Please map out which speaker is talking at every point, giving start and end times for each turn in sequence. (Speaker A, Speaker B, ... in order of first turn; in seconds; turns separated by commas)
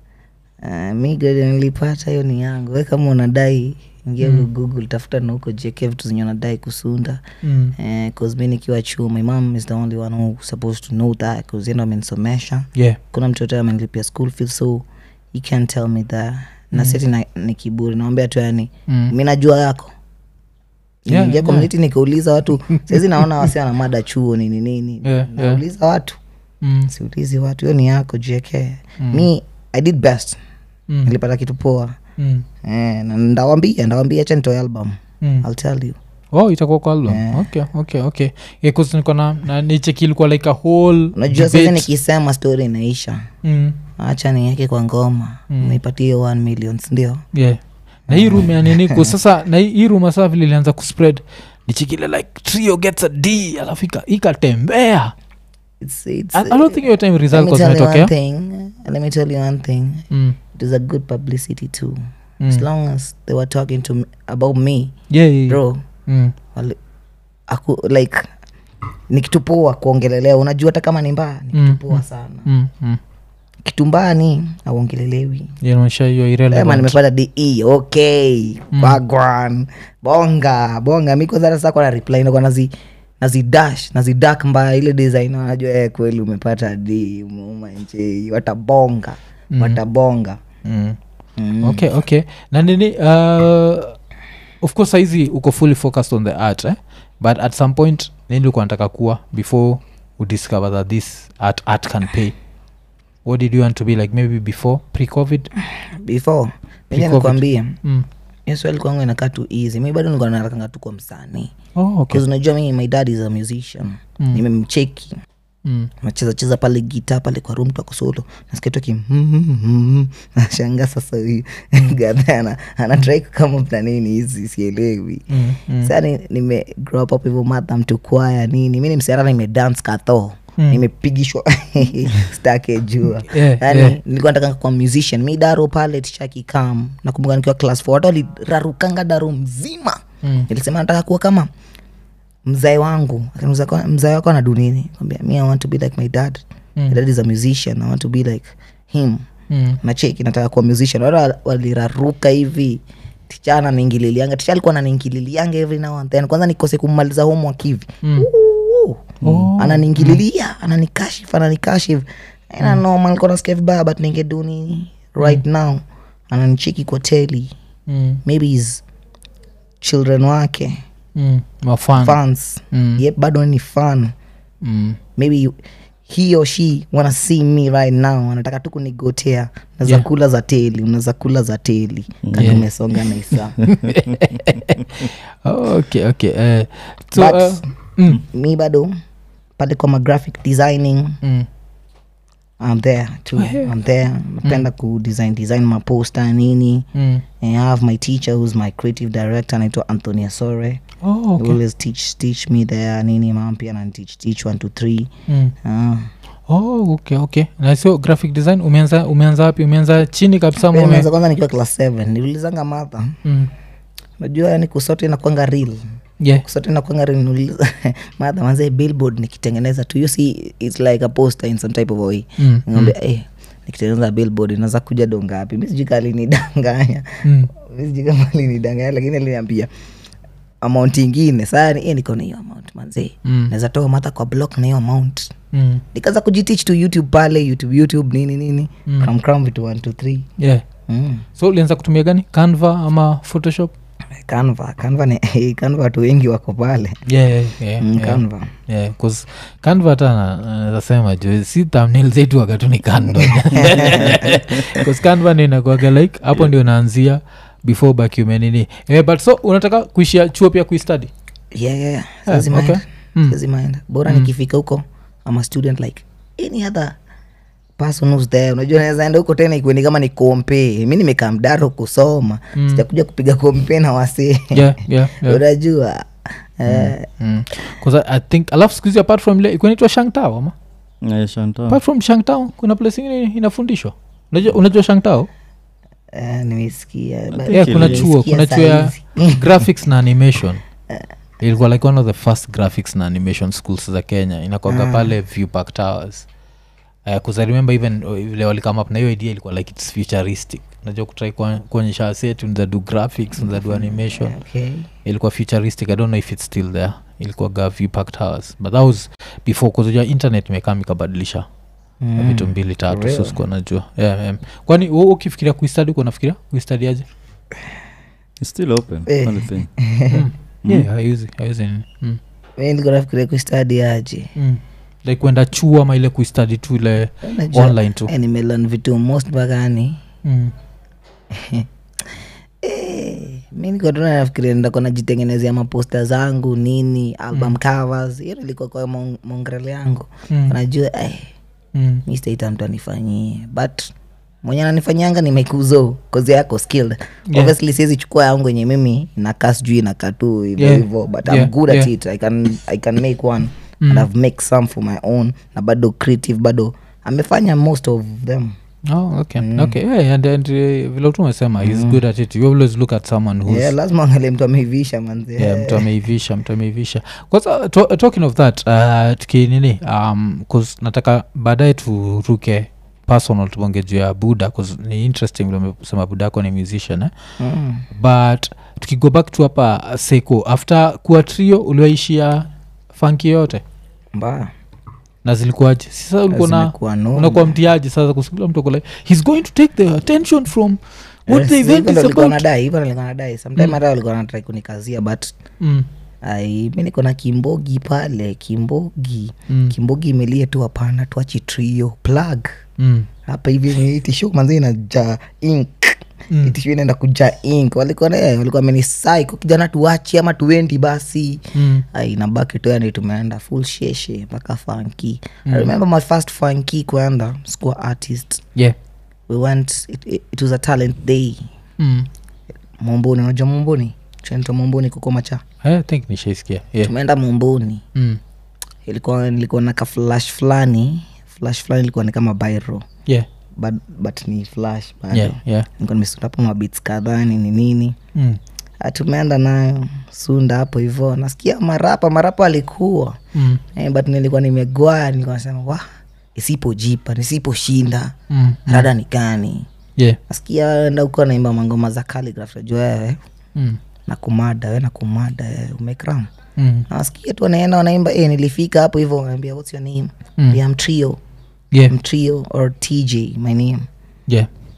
Speaker A: 0.6-7.2, Speaker B: 7.4-7.8, Speaker A: 7.8-19.9, Speaker B: 16.7-17.0, Speaker B: 18.9-19.1, Speaker A: 21.1-26.2, Speaker B: 21.1-21.7, Speaker B: 25.0-25.6, Speaker B: 26.6-26.9, Speaker A: 26.9-30.4, Speaker B: 29.0-29.3, Speaker B: 30.9-31.1, Speaker A: 31.0-32.0, Speaker B: 32.2-32.5, Speaker A: 32.6-36.0, Speaker B: 36.3-41.9, Speaker A: 37.1-37.5, Speaker A: 41.1-43.3, Speaker B: 43.4-43.8, Speaker A: 44.0-47.2, Speaker B: 45.5-45.8, Speaker B: 47.3-55.1, Speaker A: 48.1-49.1, Speaker A: 55.8-64.9, Speaker B: 56.3-58.1, Speaker B: 60.1-60.4, Speaker B: 65.1-66.3, Speaker A: 65.5-65.8, Speaker A: 67.5-68.3, Speaker A: 69.1-72.5, Speaker B: 71.5-73.0, Speaker A: 73.6-75.5, Speaker B: 75.6-77.0, Speaker A: 76.5-90.4, Speaker B: 78.7-79.0, Speaker B: 89.5-89.8, Speaker B: 90.6-91.0, Speaker A: 91.4-91.9, Speaker B: 91.6-94.0, Speaker B: 94.6-102.3, Speaker B: 103.2-105.5, Speaker A: 105.7-107.8, Speaker B: 106.9-108.1, Speaker A: 108.5-111.5, Speaker B: 111.8-112.2, Speaker A: 112.1-115.2, Speaker B: 114.2-114.4, Speaker B: 115.6-115.9, Speaker A: 116.0-141.5, Speaker B: 125.3-125.9, Speaker B: 130.6-130.8, Speaker B: 133.2-134.0, Speaker B: 140.2-140.5, Speaker A: 142.4-149.2, Speaker B: 149.5-149.8, Speaker A: 149.8-167.5, Speaker B: 158.0-158.3, Speaker C: 159.2-159.5, Speaker B: 159.2-160.2, Speaker B: 167.9-168.2, Speaker A: 168.2-168.8, Speaker A: 169.8-170.8, Speaker B: 171.2-172.2, Speaker A: 172.0-174.1, Speaker B: 172.7-173.0, Speaker B: 174.6-175.0, Speaker A: 175.2-183.6, Speaker C: 182.2-182.6, Speaker B: 182.3-182.7, Speaker B: 183.3-188.2, Speaker C: 183.6-183.9, Speaker A: 187.1-187.6, Speaker A: 188.1-188.9, Speaker A: 189.6-191.2, Speaker B: 191.2-191.5, Speaker A: 192.6-196.9, Speaker B: 193.3-193.7, Speaker B: 196.9-197.2, Speaker A: 197.4-200.8, Speaker B: 201.0-201.6, Speaker A: 201.4-206.1, Speaker B: 205.3-205.5, Speaker B: 206.5-211.1, Speaker A: 210.6-213.2, Speaker B: 213.2-213.5, Speaker A: 214.2-215.8, Speaker B: 216.2-216.4, Speaker A: 216.4-229.7, Speaker B: 222.4-222.9, Speaker B: 227.2-227.5, Speaker A: 230.6-235.3, Speaker B: 233.2-233.5, Speaker B: 235.5-235.8, Speaker A: 235.9-240.3, Speaker B: 240.4-240.6, Speaker A: 240.9-241.2, Speaker B: 241.3-243.7, Speaker A: 244.1-247.0, Speaker B: 247.1-261.1, Speaker A: 247.8-248.5, Speaker A: 253.4-254.6, Speaker A: 261.5-266.9, Speaker B: 262.3-263.4, Speaker A: 267.8-277.1, Speaker B: 272.6-272.8, Speaker B: 274.5-275.4, Speaker B: 276.7-280.5, Speaker C: 281.0-281.8, Speaker B: 281.7-285.3, Speaker A: 286.1-289.7, Speaker C: 287.3-288.1, Speaker B: 287.5-290.6, Speaker B: 291.4-296.3, Speaker A: 294.7-295.1, Speaker B: 297.1-304.3, Speaker A: 303.4-304.9, Speaker B: 305.0-311.4, Speaker A: 312.0-313.4, Speaker B: 312.1-317.1, Speaker C: 318.4-319.7, Speaker A: 319.1-320.2, Speaker B: 320.1-322.2, Speaker A: 322.6-324.3, Speaker B: 324.4-328.1, Speaker A: 327.2-330.0, Speaker B: 330.2-330.5, Speaker A: 331.3-331.7, Speaker A: 332.6-341.3, Speaker B: 340.3-340.5, Speaker B: 341.7-342.0, Speaker A: 342.0-343.9, Speaker A: 344.4-358.6, Speaker B: 347.3-347.5, Speaker B: 350.6-351.9, Speaker B: 353.8-354.1, Speaker B: 358.9-363.7, Speaker A: 359.4-359.8, Speaker A: 361.6-362.0, Speaker A: 363.4-365.9, Speaker B: 365.4-377.1, Speaker A: 377.4-377.9, Speaker B: 377.9-383.6, Speaker A: 384.1-384.5, Speaker B: 385.2-392.4, Speaker A: 386.3-387.6, Speaker A: 391.3-395.3, Speaker B: 395.6-395.9, Speaker A: 396.2-402.5, Speaker B: 399.5-399.7, Speaker B: 402.8-403.1, Speaker A: 403.2-418.4, Speaker B: 406.3-406.6, Speaker B: 411.5-411.9, Speaker B: 415.4-415.7, Speaker A: 419.3-421.5, Speaker B: 421.8-422.1, Speaker A: 422.8-425.4, Speaker B: 425.6-426.9, Speaker A: 426.8-427.8, Speaker B: 427.9-428.2, Speaker A: 428.8-432.9, Speaker A: 433.6-437.9, Speaker B: 435.1-435.7, Speaker A: 438.8-443.2, Speaker B: 443.3-443.6, Speaker A: 443.7-445.8, Speaker A: 446.3-448.1, Speaker B: 448.3-448.9, Speaker A: 448.7-449.7, Speaker A: 450.3-453.2, Speaker A: 454.1-456.3, Speaker B: 456.6-456.9, Speaker A: 456.9-461.2, Speaker A: 461.9-463.9